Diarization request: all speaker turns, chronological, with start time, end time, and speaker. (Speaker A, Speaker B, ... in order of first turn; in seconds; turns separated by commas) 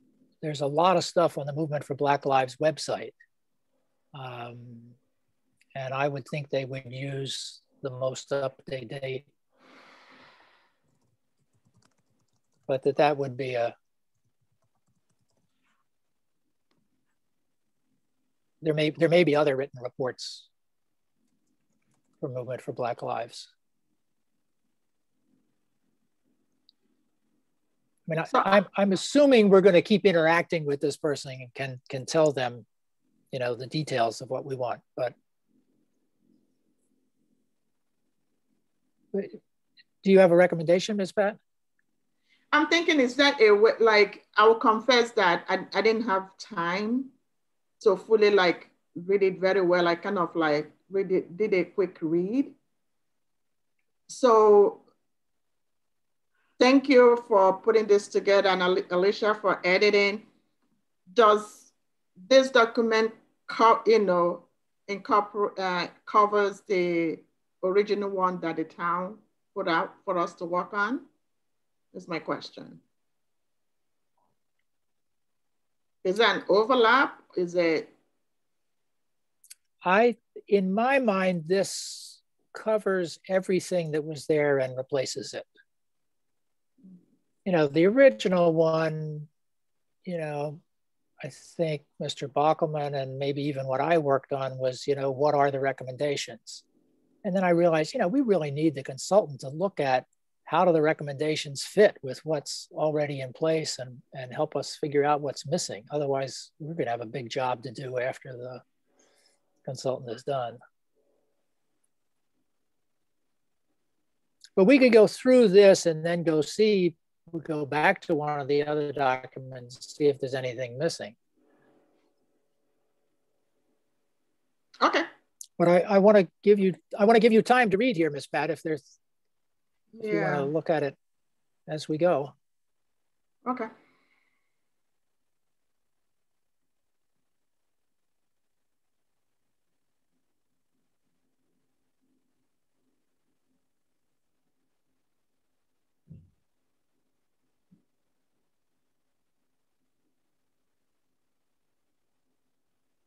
Speaker A: 0.4-3.1, Speaker A: 4.1-4.9, Speaker A: 5.7-9.3, Speaker A: 12.7-13.7, Speaker A: 18.6-20.5, Speaker A: 22.2-23.5, Speaker A: 28.1-32.6, Speaker B: 28.3-28.6, Speaker A: 33.3-35.1, Speaker A: 39.1-39.4, Speaker A: 40.0-41.4, Speaker B: 42.5-47.1, Speaker B: 47.8-52.5, Speaker B: 54.1-54.8, Speaker B: 56.6-60.3, Speaker B: 61.1-61.7, Speaker B: 62.3-71.1, Speaker B: 71.9-72.8, Speaker B: 76.0-77.9, Speaker A: 79.8-85.5, Speaker A: 87.4-89.3, Speaker A: 90.0-90.6, Speaker A: 91.2-96.6, Speaker A: 97.2-108.6, Speaker A: 109.6-110.6, Speaker A: 114.5-121.1, Speaker B: 124.8-125.0, Speaker A: 125.6-128.9, Speaker B: 129.9-130.5, Speaker A: 130.0-130.9, Speaker A: 131.7-132.3, Speaker B: 133.4-133.7